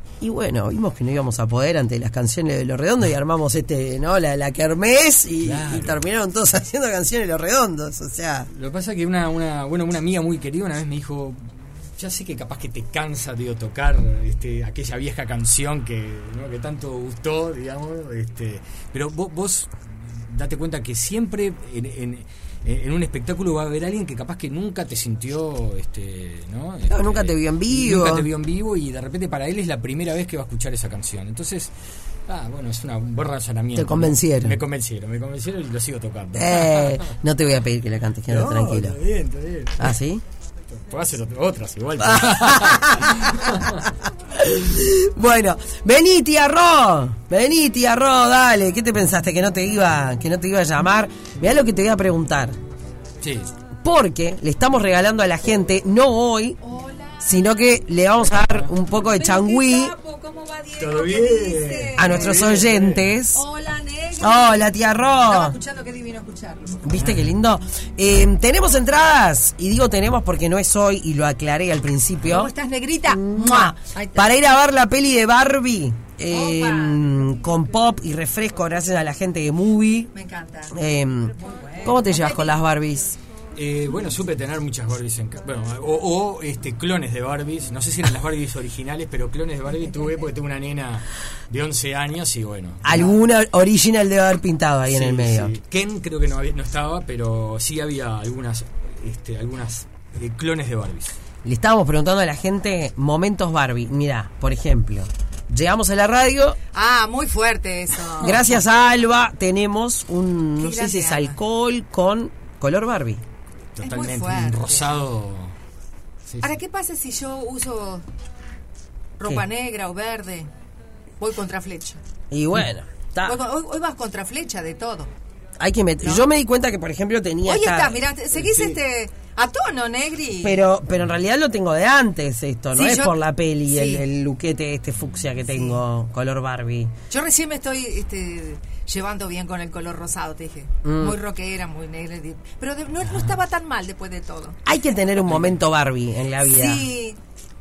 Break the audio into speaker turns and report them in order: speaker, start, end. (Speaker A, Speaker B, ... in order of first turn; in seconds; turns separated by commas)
Speaker A: 0.2-8.5, Speaker B: 5.4-6.0, Speaker B: 8.5-31.7, Speaker A: 26.9-28.3, Speaker B: 32.3-37.1, Speaker A: 33.8-34.6, Speaker A: 36.3-39.0, Speaker B: 38.3-40.0, Speaker A: 39.8-40.2, Speaker B: 40.8-43.8, Speaker A: 42.1-52.6, Speaker B: 53.2-53.5, Speaker A: 53.8-56.6, Speaker C: 56.6-57.2, Speaker A: 57.2-60.0, Speaker C: 59.0-62.5, Speaker B: 60.8-63.1, Speaker A: 62.0-63.4, Speaker C: 63.3-64.7, Speaker A: 64.2-65.6, Speaker C: 65.3-66.8, Speaker A: 66.8-72.5, Speaker B: 67.0-67.3, Speaker C: 72.2-74.3, Speaker A: 73.1-80.1, Speaker C: 76.3-77.0, Speaker C: 80.1-80.7, Speaker A: 80.7-83.2, Speaker C: 81.4-82.5, Speaker B: 83.6-93.2, Speaker A: 92.8-95.5, Speaker B: 94.9-101.2, Speaker A: 101.5-106.6, Speaker C: 106.7-108.5, Speaker A: 108.2-113.2, Speaker C: 110.6-111.4, Speaker B: 113.8-115.5, Speaker C: 113.8-114.9, Speaker B: 116.3-116.5, Speaker C: 116.4-118.0, Speaker C: 119.2-120.5, Speaker C: 121.2-122.0, Speaker A: 122.3-123.4, Speaker C: 123.3-125.1, Speaker A: 125.6-128.0, Speaker C: 127.5-130.6, Speaker B: 128.3-128.8, Speaker A: 130.4-136.9, Speaker C: 132.8-133.2, Speaker C: 133.7-134.0, Speaker C: 135.5-135.8, Speaker C: 137.1-144.6, Speaker A: 140.8-141.2, Speaker A: 144.7-146.9, Speaker B: 145.3-145.6, Speaker C: 146.4-147.2